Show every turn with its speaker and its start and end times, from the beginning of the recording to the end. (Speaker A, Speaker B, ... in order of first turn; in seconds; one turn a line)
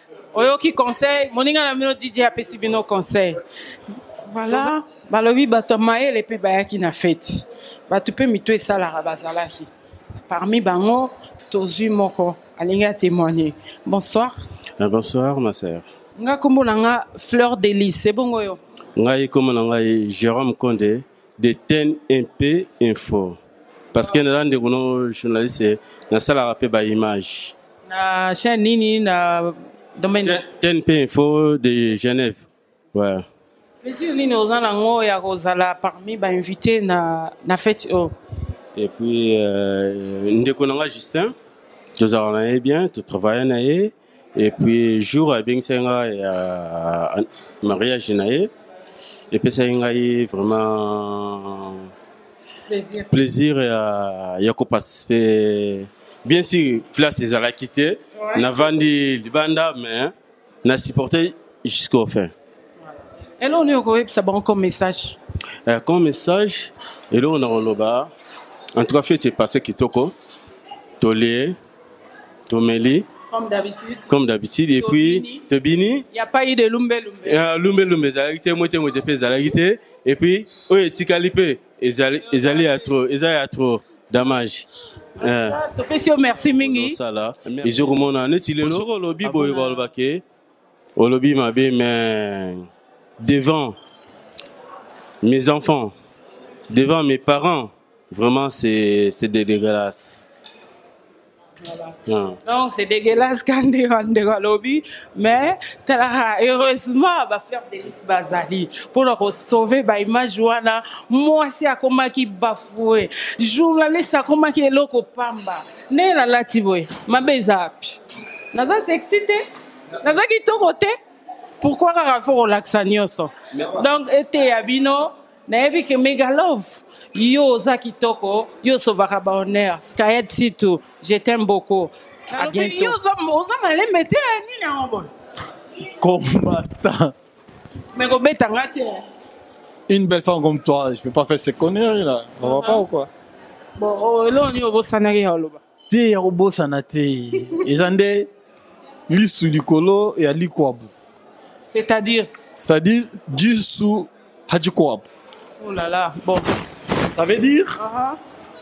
Speaker A: 0.3-3.4
Speaker A: 4.3-9.7
Speaker A: 10.3-14.3
Speaker B: 14.8-15.8
Speaker A: 16.2-18.6
Speaker B: 18.9-23.4
Speaker B: 23.9-27.5
Speaker A: 27.9-30.4
Speaker B: 30.2-33.2
Speaker A: 33.8-38.1
Speaker B: 38.8-41.3
Speaker B: 42.0-48.5
Speaker B: 49.3-51.8
Speaker A: 52.7-53.1
Speaker B: 53.1-60.1
Speaker A: 58.1-58.7
Speaker B: 60.6-62.3
Speaker A: 63.4-65.2
Speaker B: 65.7-68.1
Speaker B: 68.8-70.1
Speaker B: 71.0-71.5
Speaker B: 72.5-73.0
Speaker A: 73.3-74.1
Speaker B: 74.1-76.0
Speaker A: 74.7-75.4
Speaker A: 76.1-77.4
Speaker B: 77.2-84.7
Speaker A: 82.2-83.0
Speaker B: 85.2-85.6
Speaker A: 85.2-87.0
Speaker B: 86.5-90.2
Speaker A: 89.3-89.8
Speaker B: 91.0-92.7
Speaker B: 93.2-93.7
Speaker B: 95.2-95.9
Speaker B: 96.7-100.2
Speaker B: 102.1-102.4
Speaker A: 102.4-118.0
Speaker A: 118.5-119.4
Speaker A: 120.0-120.9
Speaker A: 121.6-135.1
Speaker C: 136.0-137.1
Speaker A: 137.9-139.0
Speaker C: 139.9-142.7
Speaker A: 142.4-142.8
Speaker A: 143.8-145.6
Speaker C: 145.9-148.3
Speaker C: 149.1-150.9
Speaker A: 151.7-152.3
Speaker C: 152.6-155.1
Speaker A: 155.6-156.5
Speaker C: 157.1-157.8
Speaker A: 157.8-158.2